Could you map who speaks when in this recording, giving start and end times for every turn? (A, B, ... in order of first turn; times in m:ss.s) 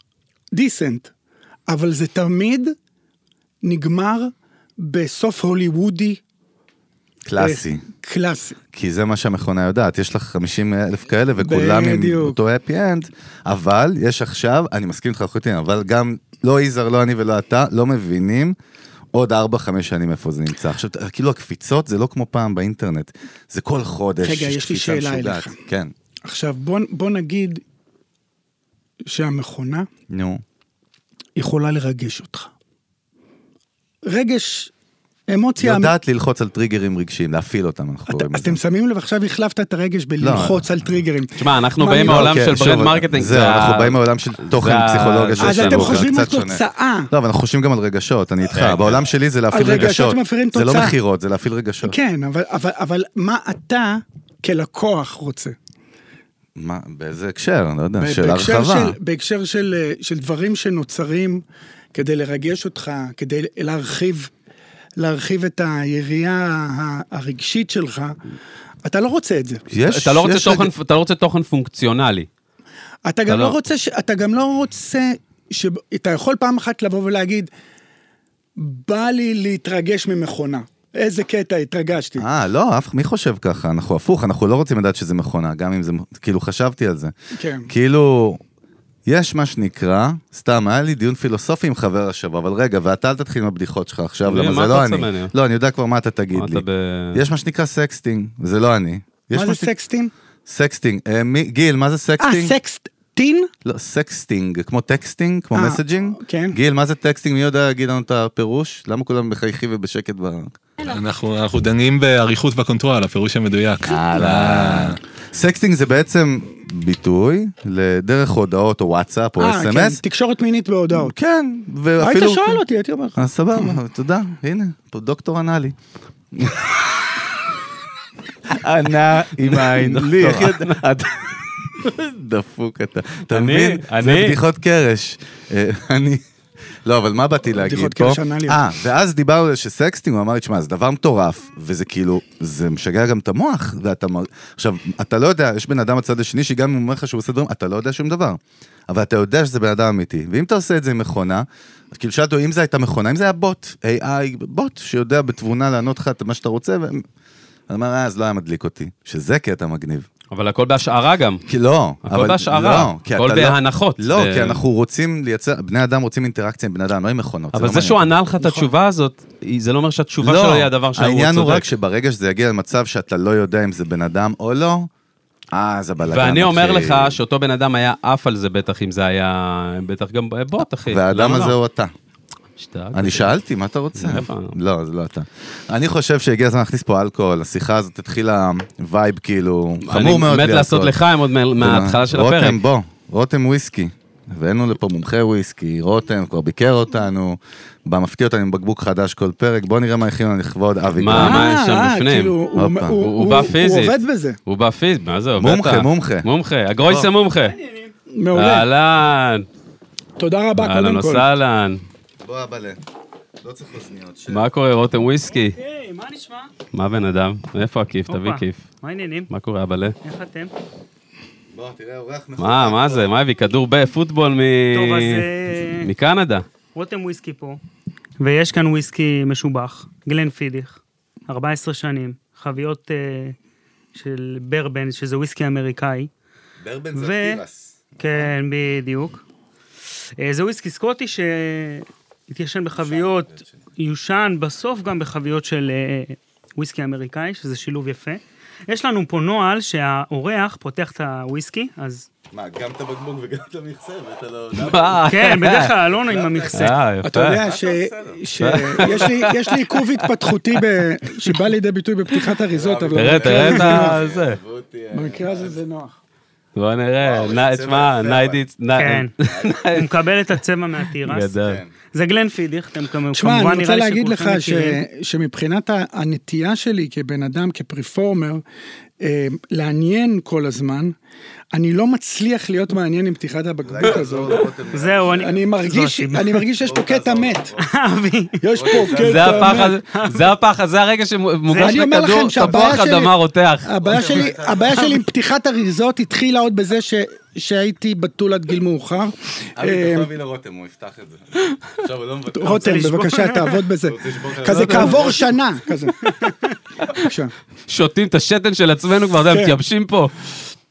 0:00.5-0:01.1 A
0:01.7-0:02.7 A
0:03.6-0:06.2 A
0:07.2-0:07.8 B
0:07.4-0:08.6 A
0:08.7-0:18.6 B
0:11.4-0:12.4 A
0:19.1-0:25.9 B
0:24.2-0:25.6 A
0:26.2-0:27.6 A
0:29.0-0:29.9 A
0:30.1-0:30.4 B
0:31.4-0:32.5 A
0:34.0-0:34.7 A
0:35.3-0:35.9 A
0:35.6-0:38.6 B
0:38.1-0:42.5 A
0:40.2-0:40.6 B
0:41.4-0:46.1 C
0:42.0-0:52.0 B
0:45.4-0:47.1 A
0:48.5-0:48.8 C
0:49.5-0:51.0 A
0:51.8-0:55.5 A
0:56.6-0:59.0 B
0:58.0-1:01.4 A
1:01.9-1:04.3 A
1:05.0-1:08.2 A
1:08.8-1:09.6 A
1:09.7-1:10.7 B
1:09.8-1:12.3 C
1:13.0-1:17.5 A
1:13.3-1:13.5 C
1:18.6-1:22.3 A
1:22.2-1:27.1 B
1:27.4-1:27.7 A
1:27.7-1:28.4 B
1:29.0-1:39.7 B
1:34.3-1:35.3 C
1:36.3-1:37.2 C
1:39.3-1:40.1 A
1:40.4-1:42.5 B
1:42.2-1:43.5 A
1:43.6-1:50.6 B
1:45.5-1:46.6 A
1:50.8-1:55.0 D
1:53.8-2:00.0 B
1:59.4-2:01.1 A
2:00.9-2:02.6 B
2:02.0-2:03.3 A
2:03.2-2:05.7 B
2:06.3-2:07.3 B
2:08.4-2:16.2 B
2:09.4-2:10.8 C
2:13.3-2:14.4 C
2:16.8-2:37.0 B
2:17.6-2:18.6 A
2:37.7-2:40.1 B
2:40.3-2:41.4 C
2:41.5-2:48.1 B
2:42.0-2:44.6 C
2:47.5-2:51.7 C
2:48.4-2:48.7 A
2:50.2-2:54.9 B
2:55.5-2:57.2 B
2:56.0-3:01.6 C
3:00.9-3:01.9 B
3:02.6-3:03.3 C
3:02.9-3:11.0 B
3:04.0-3:04.5 C
3:09.8-3:12.6 C
3:11.6-3:21.6 B
3:21.0-3:22.4 C
3:21.1-3:24.4 A
3:22.5-3:23.0 B
3:23.0-3:27.6 C
3:25.4-3:26.3 B
3:26.8-3:27.1 B
3:27.4-3:27.9 E
3:28.1-3:28.7 A
3:28.3-3:29.5 C
3:30.2-3:31.2 A
3:30.6-3:31.8 C
3:32.2-3:32.8 B
3:33.4-3:34.4 B
3:34.3-3:35.5 C
3:35.3-3:36.5 E
3:36.7-3:38.6 C
3:38.1-3:39.3 E
3:39.3-3:40.0 C
3:40.0-3:40.5 E
3:41.5-3:43.1 B
3:42.4-3:45.3 C
3:44.7-3:45.9 E
3:45.8-3:46.4 C
3:46.7-3:47.6 E
3:48.2-3:53.4 E
3:53.9-3:56.1 E
3:56.6-3:58.3 B
3:56.9-3:57.4 E
3:58.0-3:59.2 E
4:00.2-4:12.1 E
4:02.7-4:03.6 B
4:12.3-4:19.2 B
4:14.6-4:15.7 C
4:15.1-4:16.8 E
4:16.5-4:17.4 C
4:17.0-4:24.0 A
4:18.4-4:20.1 C
4:22.5-4:25.5 B
4:22.9-4:24.4 C
4:24.9-4:26.0 A
4:26.6-4:29.9 C
4:27.0-4:28.4 B
4:28.8-4:29.1 E
4:29.3-4:29.6 B
4:29.7-4:31.3 E
4:31.0-4:31.6 C
4:31.4-4:31.7 B
4:31.9-4:34.8 E
4:33.1-4:38.4 A
4:39.0-4:40.9 A
4:41.5-4:44.5 A
4:43.6-4:45.4 B
4:44.7-4:46.4 E
4:45.2-4:47.5 A
4:46.6-4:47.8 B
4:47.6-4:49.0 E
4:48.4-4:49.8 A
4:48.5-4:49.7 B
4:49.0-4:53.7 C
4:49.9-4:50.3 E
4:51.5-4:51.8 E
4:51.6-5:00.1 A
4:53.8-4:55.0 B
4:59.6-5:02.9 B
5:02.3-5:06.0 A
5:02.5-5:03.6 E
5:03.8-5:05.3 B
5:04.5-5:05.1 C
5:06.0-5:06.4 E
5:06.9-5:07.3 A
5:07.7-5:10.1 C
5:09.3-5:09.6 A